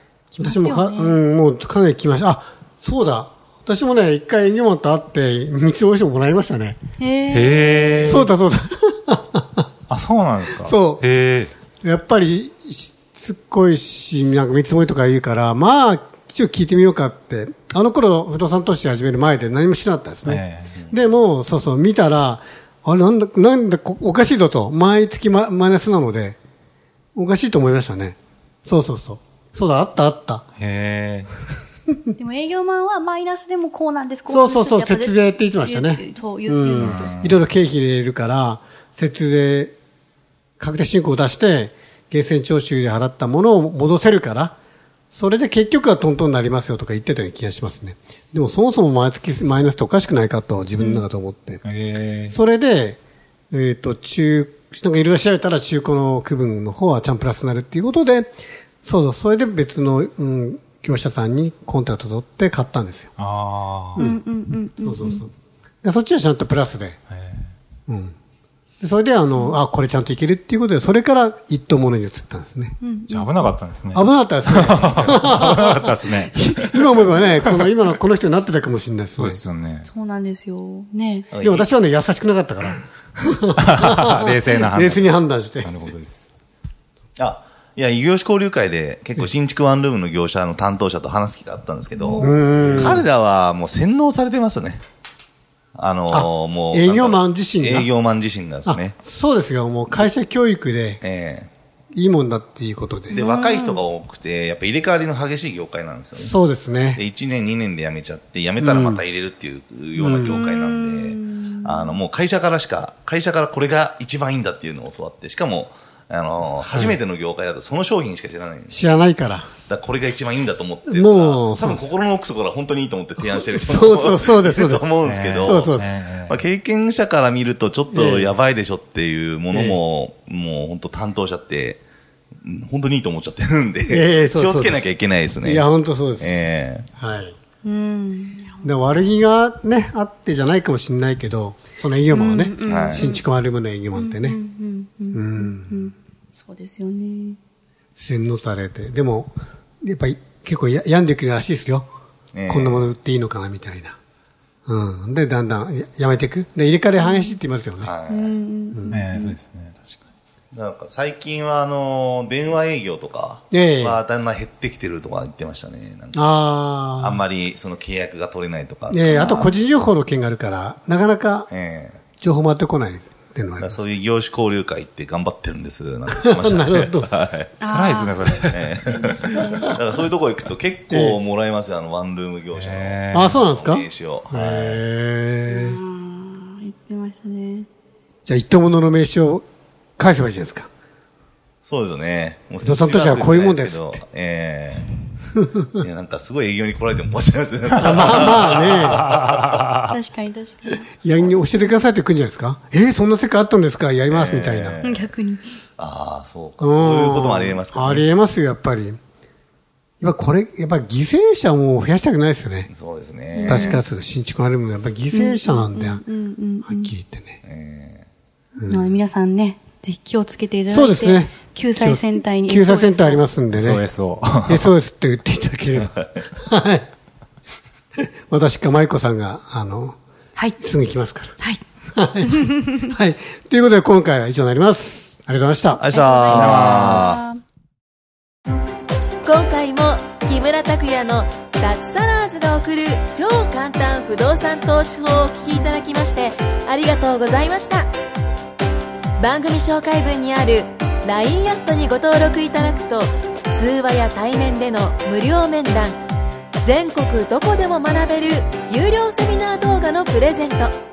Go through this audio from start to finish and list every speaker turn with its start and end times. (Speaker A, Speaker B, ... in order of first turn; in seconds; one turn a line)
Speaker A: 0.3-1.2
Speaker B: 0.4-6.8
Speaker A: 7.0-8.2
Speaker C: 7.3-8.3
Speaker B: 8.0-9.7
Speaker C: 9.9-11.5
Speaker B: 10.5-11.0
Speaker B: 11.8-26.4
Speaker C: 20.2-20.7
Speaker D: 20.7-21.0
Speaker B: 27.1-30.4
Speaker C: 30.6-31.3
Speaker A: 32.2-37.2
Speaker B: 34.3-39.7
Speaker C: 36.8-37.4
Speaker B: 40.6-44.5
Speaker B: 45.1-51.6
Speaker C: 51.6-52.4
Speaker B: 52.3-53.0
Speaker B: 53.5-63.1
Speaker C: 63.2-64.0
Speaker B: 64.0-64.2
Speaker A: 64.0-65.2
Speaker B: 64.8-65.3
Speaker B: 65.8-67.0
Speaker C: 67.1-67.5
Speaker B: 67.9-68.1
Speaker B: 68.8-72.8
Speaker A: 69.3-69.6
Speaker A: 72.8-73.4
Speaker C: 73.1-77.7
Speaker B: 73.9-79.4
Speaker C: 79.2-79.9
Speaker A: 79.8-81.3
Speaker D: 81.3-81.7
Speaker B: 81.4-85.7
Speaker C: 83.6-86.3
Speaker D: 87.2-94.8
Speaker A: 92.0-92.4
Speaker B: 92.2-93.1
Speaker C: 92.6-93.0
Speaker D: 95.8-99.0
Speaker B: 96.1-97.9
Speaker B: 98.7-101.0
Speaker D: 101.0-101.5
Speaker B: 101.9-103.2
Speaker A: 103.1-103.8
Speaker D: 103.1-106.3
Speaker B: 106.2-107.0
Speaker D: 107.0-118.8
Speaker B: 108.6-109.0
Speaker B: 110.0-110.5
Speaker A: 110.2-112.0
Speaker B: 116.6-117.0
Speaker B: 118.7-119.5
Speaker D: 119.7-125.7
Speaker B: 120.9-121.8
Speaker B: 123.3-124.9
Speaker C: 125.0-126.4
Speaker B: 125.4-125.9
Speaker D: 126.3-131.8
Speaker B: 127.9-128.3
Speaker B: 129.5-129.8
Speaker D: 132.4-135.7
Speaker B: 133.9-134.9
Speaker B: 135.4-136.5
Speaker D: 136.2-136.9
Speaker B: 137.0-137.3
Speaker A: 137.6-138.7
Speaker B: 138.6-144.4
Speaker A: 142.1-143.2
Speaker D: 142.7-143.1
Speaker A: 143.9-147.4
Speaker B: 145.1-145.9
Speaker B: 148.0-151.9
Speaker D: 152.3-152.9
Speaker B: 152.5-154.0
Speaker B: 154.7-157.9
Speaker A: 157.0-157.4
Speaker D: 157.8-158.3
Speaker A: 158.1-159.4
Speaker B: 158.7-159.0
Speaker C: 158.9-160.0
Speaker D: 160.5-166.3
Speaker B: 163.5-164.0
Speaker B: 166.1-167.2
Speaker D: 167.0-169.6
Speaker B: 168.9-171.5
Speaker A: 169.1-169.6
Speaker D: 171.5-172.0
Speaker B: 172.2-173.8
Speaker D: 173.6-177.6
Speaker B: 176.1-177.2
Speaker A: 177.6-179.7
Speaker C: 177.6-178.8
Speaker D: 178.5-184.8
Speaker B: 179.3-179.8
Speaker B: 180.9-181.2
Speaker C: 182.5-183.4
Speaker B: 183.1-185.8
Speaker A: 185.5-187.7
Speaker B: 188.3-189.4
Speaker B: 190.0-190.7
Speaker D: 191.6-195.0
Speaker B: 192.6-193.9
Speaker B: 195.3-195.8
Speaker D: 195.8-199.4
Speaker B: 197.7-199.1
Speaker C: 199.5-199.9
Speaker A: 199.9-201.8
Speaker B: 201.0-204.8
Speaker D: 204.1-205.1
Speaker A: 204.8-205.6
Speaker D: 205.8-208.1
Speaker B: 206.6-209.0
Speaker B: 210.0-212.7
Speaker D: 212.7-213.8
Speaker A: 213.3-213.8
Speaker B: 213.4-216.0
Speaker A: 215.1-216.9
Speaker B: 216.7-217.4
Speaker D: 217.4-218.1
Speaker B: 218.6-219.0
Speaker A: 218.6-223.3
Speaker B: 220.7-223.8
Speaker C: 223.5-224.7
Speaker B: 224.5-226.9
Speaker B: 228.0-230.0
Speaker B: 230.6-231.4
Speaker B: 231.9-237.0
Speaker A: 232.2-232.9
Speaker D: 235.8-237.2
Speaker A: 235.8-237.4
Speaker E: 239.2-247.9
Speaker E: 249.2-256.0
Speaker E: 256.6-260.7